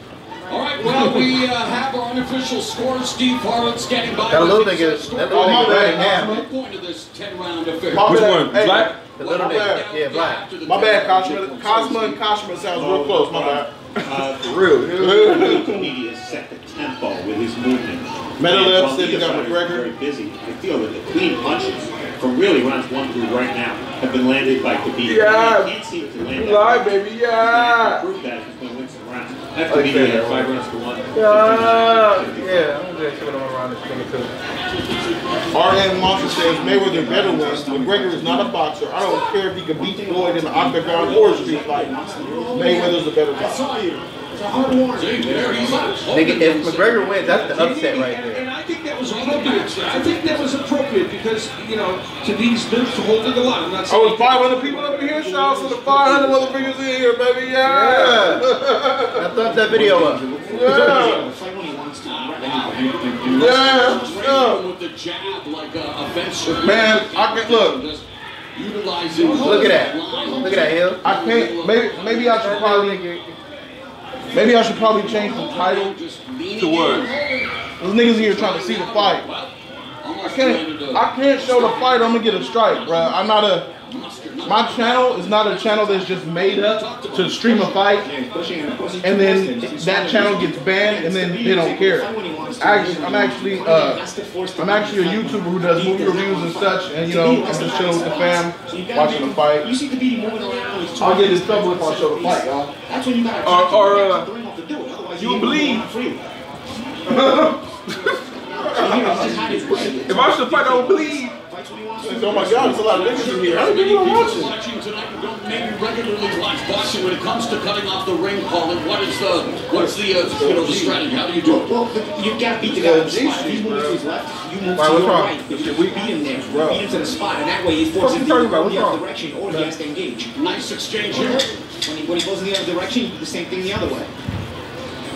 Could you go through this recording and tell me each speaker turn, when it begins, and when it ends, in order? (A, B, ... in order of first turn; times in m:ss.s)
0:00.5-0:08.2 A
0:00.9-0:01.2 B
0:04.3-0:06.4 C
0:05.3-0:06.4 B
0:07.9-0:09.8 B
0:08.0-0:09.0 D
0:09.2-0:10.4 C
0:09.2-0:12.1 A
0:10.6-0:13.7 B
0:12.8-0:14.4 E
0:14.0-0:15.6 D
0:14.9-0:15.8 B
0:15.0-0:32.7 E
0:15.8-0:16.4 F
0:18.4-0:19.9 B
0:25.0-0:28.1 D
0:29.7-0:30.6 B
0:31.1-0:34.3 C
0:35.5-0:43.7 B
0:35.7-0:38.6 F
0:39.2-0:46.0 F
0:44.9-0:47.6 A
0:46.0-0:48.5 C
0:47.2-0:56.1 G
0:49.1-0:50.6 A
0:53.9-0:59.3 B
0:54.8-0:56.8 F
0:57.6-0:58.5 C
0:59.2-1:01.0 C
0:59.3-1:04.2 F
1:00.5-1:01.3 B
1:02.0-1:12.9 A
1:03.3-1:04.6 B
1:06.6-1:07.8 B
1:09.1-1:10.7 G
1:09.4-1:11.0 C
1:09.4-1:09.8 B
1:11.0-1:13.0 B
1:12.2-1:13.4 C
1:14.3-1:15.9 B
1:14.5-1:27.8 A
1:16.6-1:17.1 D
1:17.8-1:19.3 B
1:20.2-1:23.7 B
1:24.4-1:28.1 B
1:27.5-1:46.2 F
1:29.0-1:34.0 B
1:34.6-1:39.7 B
1:41.0-1:42.7 B
1:43.4-1:44.3 D
1:45.2-1:45.9 D
1:47.0-1:47.6 B
1:47.9-1:48.2 D
1:48.4-1:53.2 F
1:48.6-1:49.8 B
1:48.7-1:51.4 D
1:52.0-1:54.5 B
1:52.8-2:01.7 A
1:59.7-2:01.0 B
2:01.4-2:10.3 F
2:02.7-2:04.0 B
2:04.8-2:05.4 C
2:05.5-2:06.8 B
2:08.0-2:09.0 C
2:10.3-2:11.5 A
2:11.1-2:14.1 F